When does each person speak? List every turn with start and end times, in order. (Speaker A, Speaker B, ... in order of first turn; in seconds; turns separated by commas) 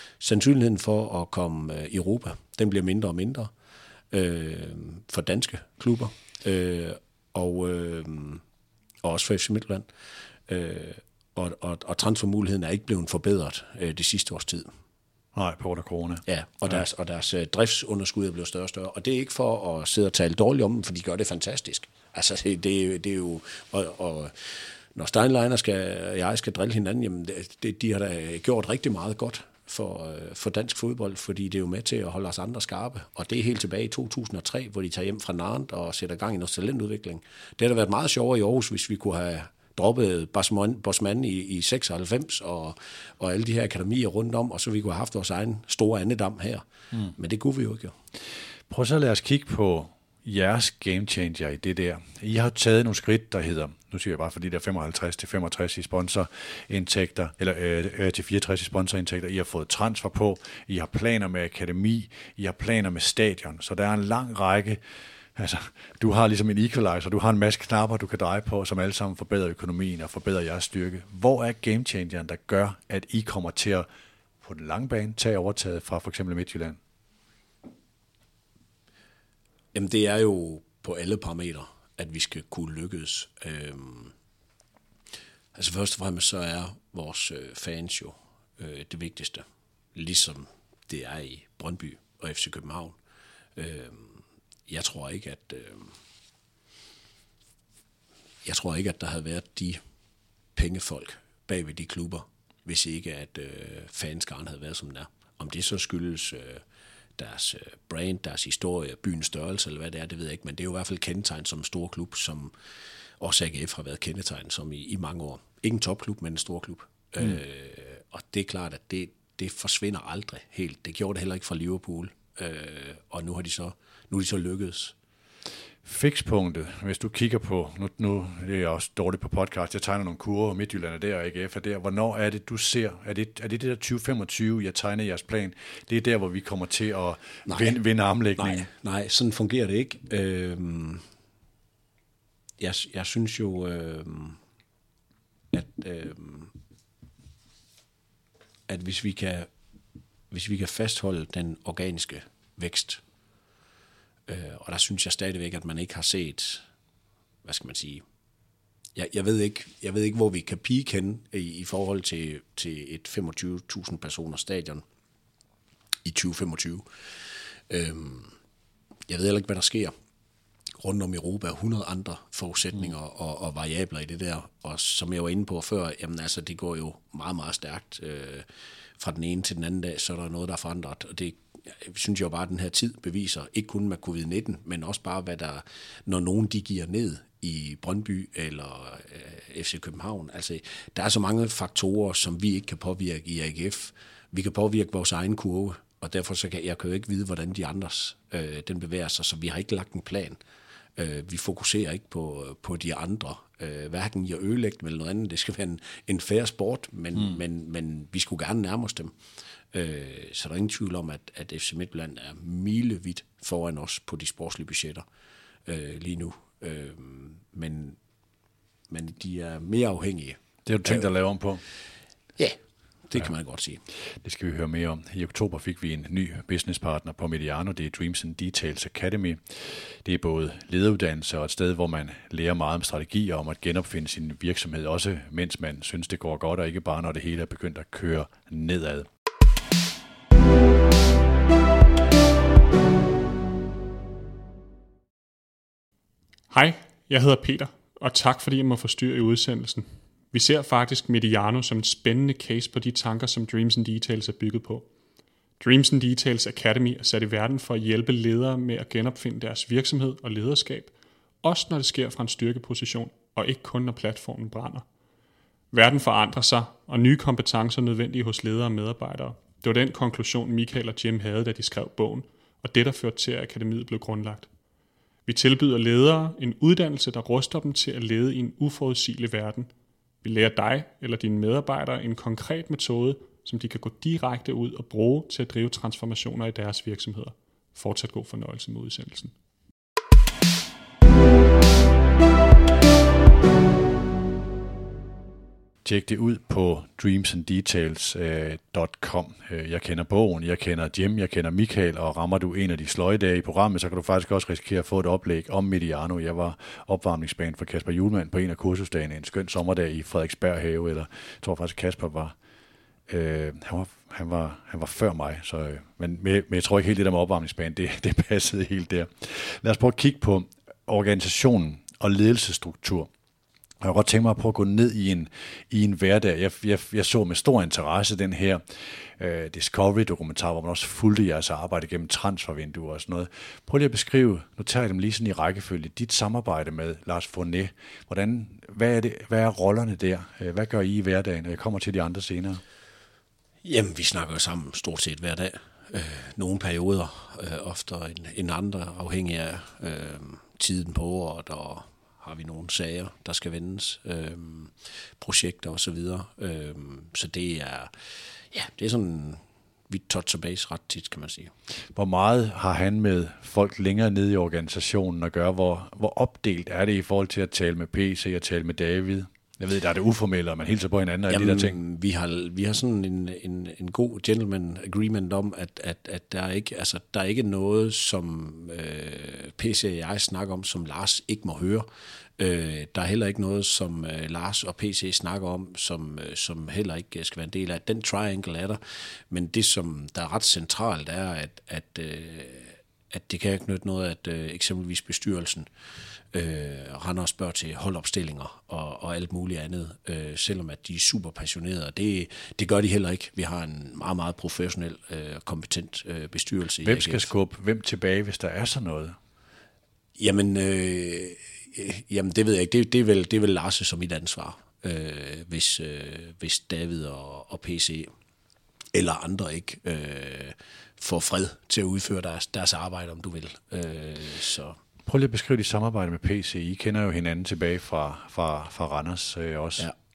Speaker A: 0.2-3.5, Speaker A: 4.1-8.4, Speaker A: 9.0-9.9, Speaker A: 10.5-14.7, Speaker B: 15.3-16.8, Speaker A: 16.3-47.9, Speaker B: 48.7-64.8, Speaker B: 65.4-73.9, Speaker B: 74.4-76.8, Speaker A: 79.7-84.1, Speaker A: 85.5-89.4, Speaker A: 89.9-93.0, Speaker A: 93.6-95.9, Speaker A: 98.4-99.8, Speaker A: 100.6-106.6, Speaker A: 107.2-112.5, Speaker A: 113.2-124.9, Speaker B: 125.8-138.7, Speaker A: 137.5-137.8, Speaker A: 138.4-141.0, Speaker A: 142.6-144.4, Speaker A: 145.5-146.5, Speaker A: 148.7-149.5, Speaker A: 150.3-153.0, Speaker A: 154.3-156.6, Speaker A: 157.4-158.0, Speaker A: 158.9-164.8, Speaker A: 166.1-166.9, Speaker A: 167.7-168.3, Speaker A: 169.1-169.9, Speaker A: 170.8-178.5, Speaker A: 179.0-200.4, Speaker A: 201.0-209.1, Speaker A: 209.7-215.1, Speaker A: 215.7-218.0, Speaker A: 218.9-221.1, Speaker B: 220.6-221.6, Speaker A: 222.4-223.8, Speaker B: 224.2-239.1, Speaker C: 246.5-254.9, Speaker C: 255.6-264.9, Speaker C: 265.7-274.5, Speaker C: 275.3-279.7, Speaker C: 280.2-289.3, Speaker B: 295.8-312.4, Speaker B: 313.1-323.1, Speaker B: 323.8-342.6, Speaker A: 343.6-357.9, Speaker A: 358.5-361.5, Speaker B: 361.9-371.8, Speaker A: 371.3-381.9, Speaker A: 382.4-395.7, Speaker A: 396.3-407.3, Speaker B: 406.8-409.2, Speaker A: 410.2-418.1, Speaker A: 418.9-424.8, Speaker B: 425.1-429.9